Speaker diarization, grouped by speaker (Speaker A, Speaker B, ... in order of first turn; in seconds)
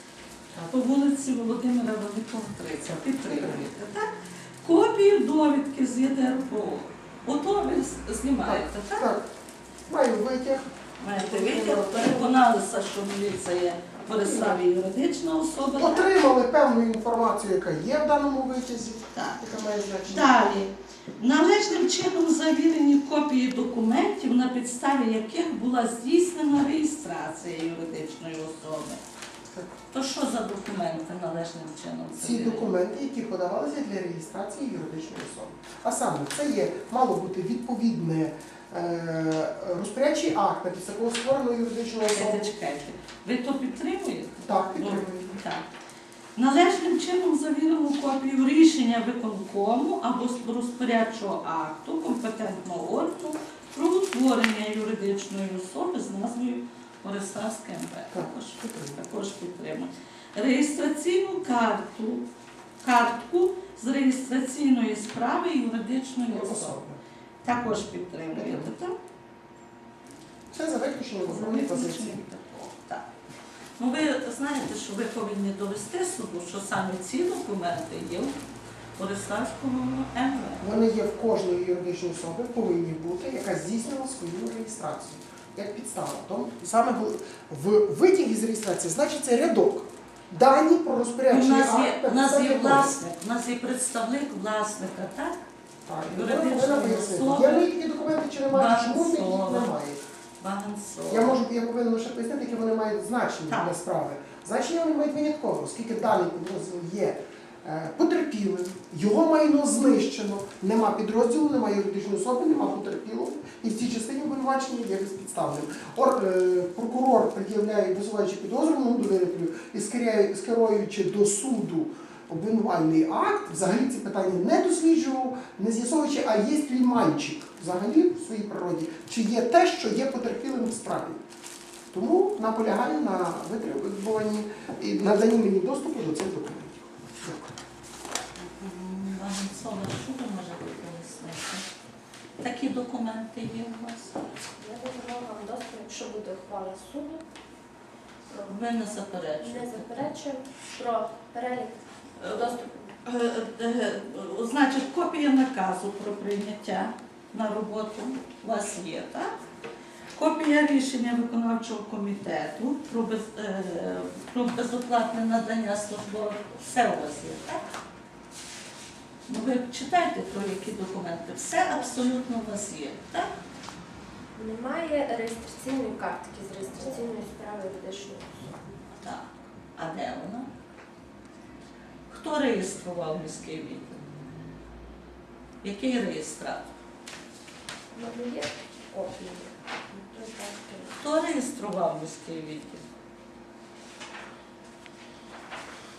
Speaker A: 0.7-9.1, 11.0-16.1, 19.1-19.4, 20.1-29.0, 29.9-32.7, 42.1-45.6, 46.4-62.2, 62.8-66.8, 67.4-69.0, 71.2-73.1, 73.8-78.4, 79.0-80.6, 91.3-95.4, 96.1-97.7, 98.5-99.7, 100.4-101.4, 138.4-141.7, 142.4-144.2, 148.5-150.0, 152.2-159.3, 160.1-167.6, 169.3-173.3, 178.9-180.5, 182.1-184.0, 185.6-186.7, 191.0-192.8
Speaker B: 2.8-3.6, 8.4-9.3, 9.9-12.4, 14.0-14.6, 15.8-20.4, 32.2-42.5, 44.4-45.4, 58.1-59.0, 66.3-67.0, 68.3-68.7, 70.5-72.2, 80.6-92.9, 95.8-100.0, 101.1-131.2, 131.9-137.5
Speaker C: 144.6-147.2, 148.3-148.5, 149.4-152.9, 174.3-178.6, 187.9-190.9